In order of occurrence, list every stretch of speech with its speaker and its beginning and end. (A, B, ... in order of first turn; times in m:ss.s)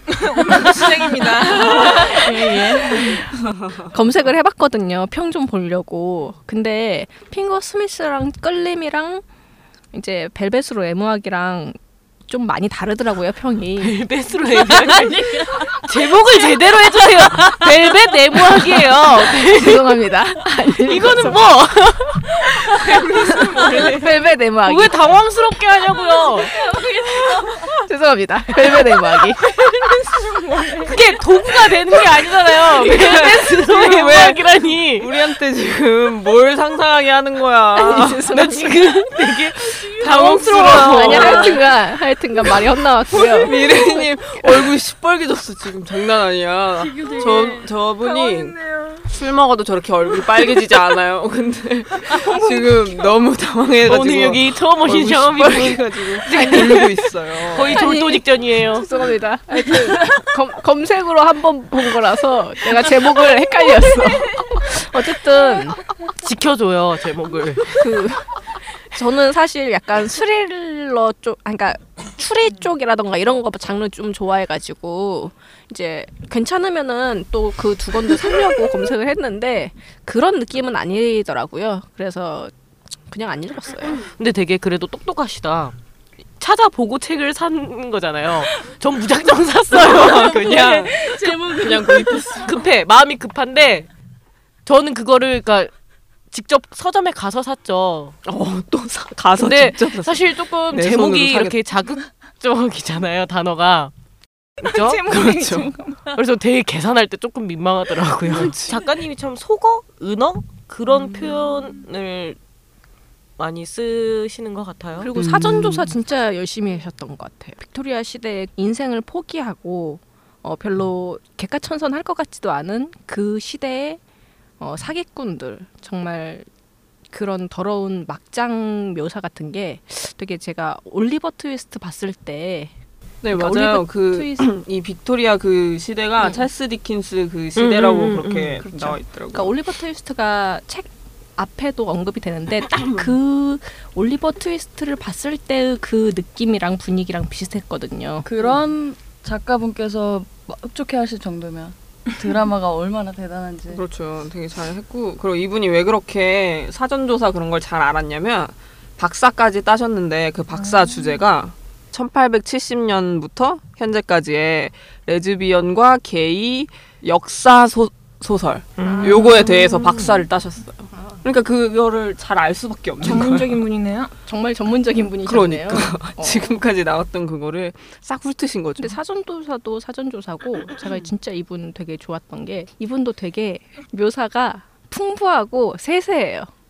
0:00.1-0:03.1 A
0:00.4-0:00.9 B
0:01.7-0:09.2 B
0:01.8-0:03.3 C
0:09.9-0:11.8 B
0:12.3-0:14.0 B
0:13.8-0:20.0 D
0:15.1-0:15.6 C
0:17.4-0:21.4 B
0:20.8-0:24.0 D
0:22.8-0:23.9 A
0:23.7-0:25.0 B
0:24.6-0:26.5 D
0:26.6-0:27.1 A
0:27.6-0:29.6 B
0:29.7-0:31.0 A
0:30.8-0:35.1 D
0:32.5-0:38.4 E
0:37.8-0:38.9 B
0:38.3-0:41.6 D
0:39.9-0:41.7 E
0:40.0-0:40.4 A
0:40.8-0:43.7 B
0:43.1-0:57.8 E
0:46.8-0:47.7 C
0:48.0-0:49.1 A
0:53.8-0:58.9 D
0:57.6-1:05.8 B
1:06.1-1:08.0 D
1:07.8-1:08.3 B
1:08.9-1:22.5 B
1:23.1-1:24.0 B
1:24.2-1:25.8 D
1:26.4-1:31.0 D
1:29.7-1:32.6 E
1:30.3-1:32.4 C
1:32.4-1:33.9 D
1:34.7-1:35.7 D
1:36.3-1:38.2 D
1:38.2-1:41.6 E
1:39.4-1:43.9 D
1:44.6-1:45.1 D
1:44.6-1:46.1 A
1:45.1-1:45.7 E
1:46.1-1:52.4 D
1:48.3-1:48.8 E
1:53.4-1:55.1 D
1:55.0-2:04.0 B
1:55.2-1:55.9 E
2:04.6-2:06.5 B
2:07.1-2:12.7 B
2:13.2-2:19.6 E
2:13.3-2:14.5 B
2:17.6-2:18.6 D
2:18.6-2:28.3 B
2:22.8-2:23.1 E
2:28.2-2:33.8 C
2:33.7-2:53.6 E
2:48.8-2:50.2 D
2:48.8-2:49.7 B
2:51.0-2:51.2 B
2:53.0-2:54.2 A
2:54.3-2:56.6 B
2:55.2-2:59.0 E
2:58.8-3:06.5 B